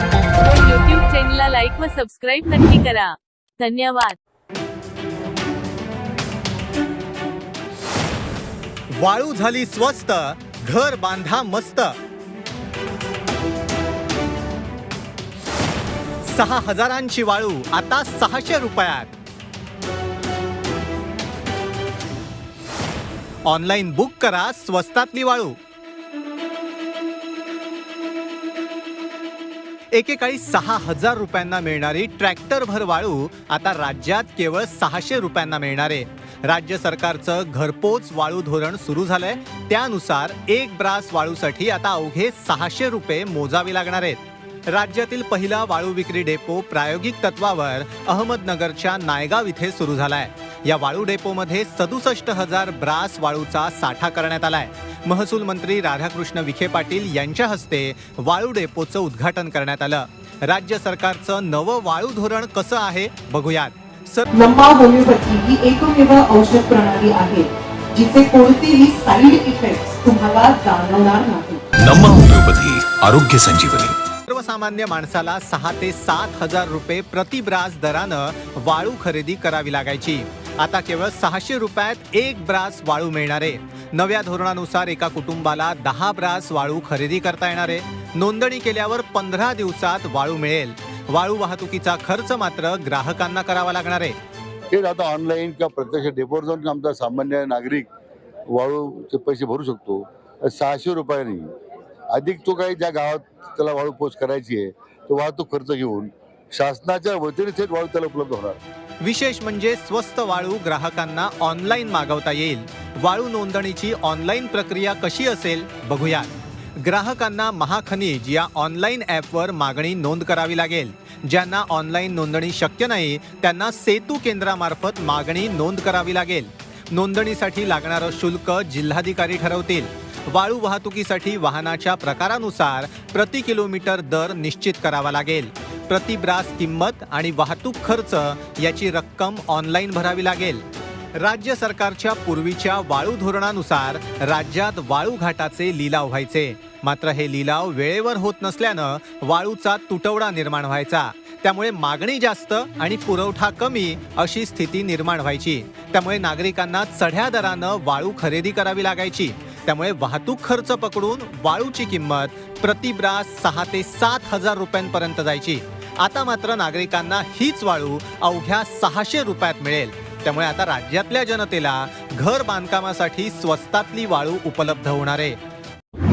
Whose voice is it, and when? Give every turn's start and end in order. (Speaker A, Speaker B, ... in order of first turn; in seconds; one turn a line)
Speaker A: 0.4-4.2
Speaker B: 9.0-11.9
Speaker B: 16.2-19.1
Speaker B: 23.4-25.6
Speaker B: 29.9-64.2
Speaker C: 64.3-71.6
Speaker D: 71.8-74.0
Speaker B: 74.3-94.2
Speaker E: 94.7-97.9
Speaker E: 98.5-101.5
Speaker E: 102.1-108.6
Speaker B: 109.0-140.6
Speaker B: 141.2-175.4